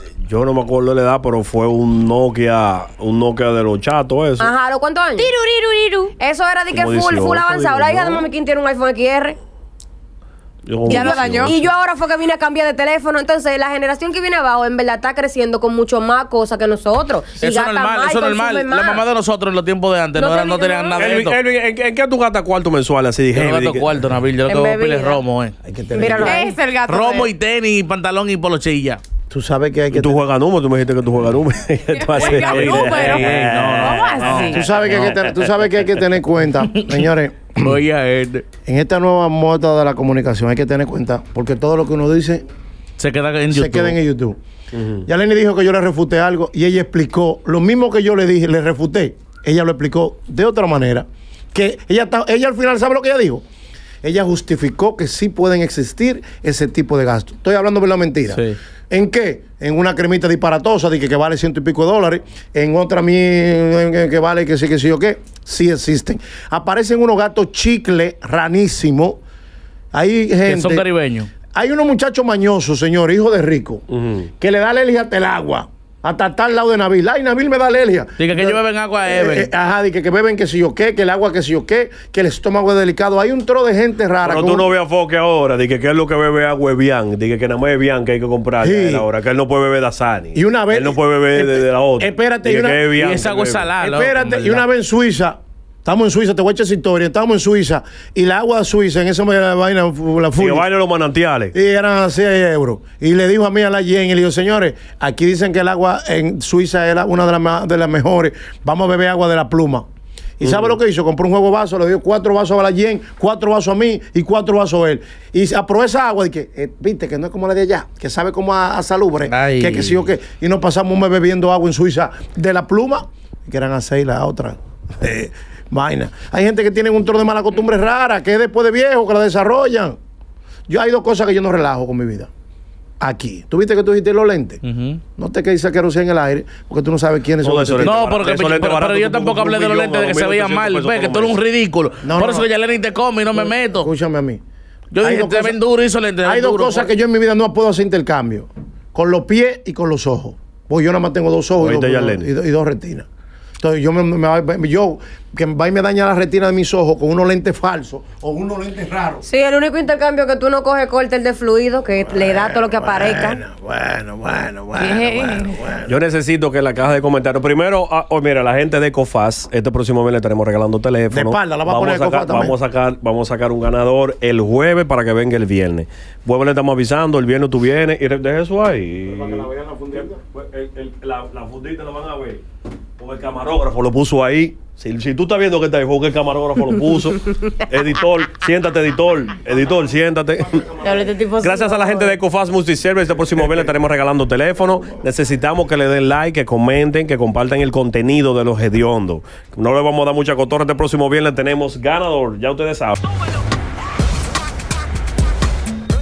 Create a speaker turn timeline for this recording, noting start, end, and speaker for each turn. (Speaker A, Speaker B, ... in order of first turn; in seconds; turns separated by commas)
Speaker A: 0.2-4.5, Speaker B: 4.4-5.3, Speaker C: 5.2-6.1, Speaker B: 6.2-9.4, Speaker A: 6.7-8.2, Speaker A: 10.7-11.6, Speaker C: 10.9-11.5, Speaker B: 10.9-19.0, Speaker D: 17.4-21.4, Speaker B: 20.2-21.0, Speaker C: 20.3-20.9, Speaker A: 20.9-23.9, Speaker D: 23.3-25.5, Speaker B: 24.4-25.2, Speaker E: 25.6-26.5, Speaker B: 25.9-26.5, Speaker C: 26.2-27.3, Speaker D: 26.9-29.0, Speaker E: 29.3-30.2, Speaker A: 29.9-34.2, Speaker C: 31.9-34.6, Speaker D: 32.2-35.1, Speaker E: 34.5-37.8, Speaker A: 34.9-35.5, Speaker D: 36.6-37.0, Speaker D: 37.6-38.4, Speaker E: 38.6-42.4, Speaker D: 43.0-44.0, Speaker E: 43.5-44.4, Speaker A: 44.7-45.1, Speaker E: 45.0-53.4, Speaker E: 54.0-69.2, Speaker D: 58.3-58.6, Speaker E: 69.9-70.9, Speaker D: 70.5-71.3, Speaker E: 71.5-73.8, Speaker A: 73.9-74.3, Speaker E: 74.4-84.7, Speaker D: 78.2-79.5, Speaker A: 84.2-93.8, Speaker E: 88.6-89.0, Speaker E: 90.3-92.9, Speaker D: 92.9-94.6, Speaker E: 93.8-100.6, Speaker A: 100.4-101.5, Speaker E: 101.5-109.8, Speaker E: 110.4-130.0, Speaker A: 110.4-110.7, Speaker D: 119.3-119.9, Speaker E: 130.7-132.3, Speaker E: 133.0-134.6, Speaker D: 134.6-135.0, Speaker E: 135.2-138.0, Speaker A: 137.4-141.4, Speaker D: 137.8-143.9, Speaker E: 142.0-142.5, Speaker E: 143.3-144.4, Speaker D: 144.9-146.9, Speaker E: 145.0-145.6, Speaker E: 146.2-153.1, Speaker A: 151.6-152.3, Speaker E: 153.6-159.2, Speaker B: 159.2-163.4, Speaker E: 162.1-165.9, Speaker C: 164.8-165.5, Speaker A: 165.9-182.4, Speaker E: 171.1-172.6, Speaker E: 179.1-180.2, Speaker A: 183.0-190.8, Speaker E: 190.4-191.1, Speaker B: 190.8-192.2, Speaker A: 191.4-203.0